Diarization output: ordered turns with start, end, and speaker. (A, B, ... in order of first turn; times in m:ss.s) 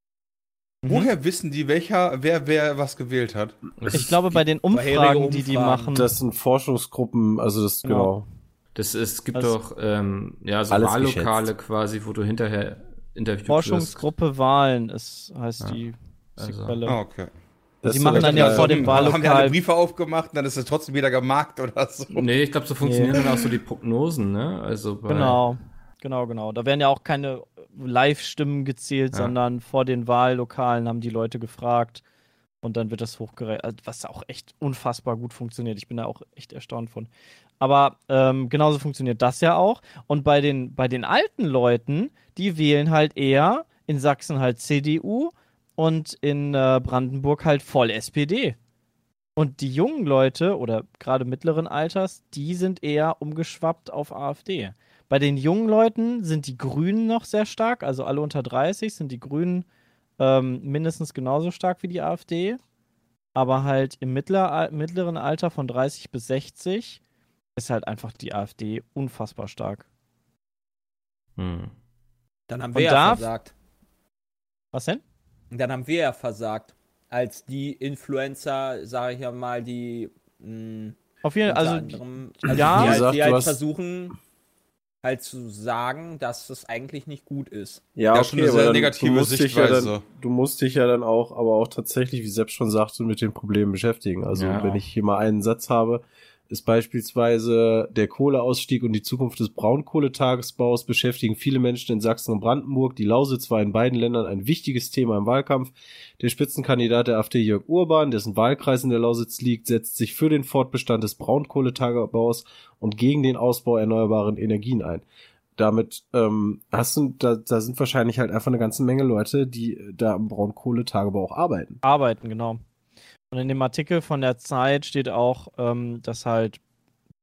0:00.8-0:01.1 A
0:00.9-0:03.9 B
0:03.8-0:04.1 C
0:03.9-0:06.1 A
0:04.7-0:05.9 D
0:05.9-0:08.3 E
0:07.8-0:08.1 A
0:08.8-0:14.0 C
0:10.7-0:11.5 E
0:13.5-0:17.0 A
0:16.4-0:16.8 C
0:16.9-0:17.3 B
0:17.8-0:19.1 E
0:17.8-0:19.6 A
0:18.1-0:22.2 B
0:22.1-0:25.4 C
0:22.8-0:23.2 A
0:25.1-0:32.0 A
0:32.6-0:48.6 A
0:49.4-0:59.7 A
1:00.2-1:02.6 A
1:03.4-1:07.0 A
1:07.6-1:09.8 A
1:11.4-1:11.7 C
1:12.5-1:13.5 D
1:12.7-1:13.3 A
1:14.7-1:15.0 A
1:15.5-1:21.0 D
1:21.2-1:23.0 A
1:21.5-1:24.2 D
1:22.5-1:23.6 E
1:25.0-1:27.8 D
1:28.0-1:55.0 E
1:28.1-1:30.0 B
1:34.3-1:34.8 C
1:55.6-2:01.8 E
2:01.8-2:02.6 A
2:03.3-2:06.6 A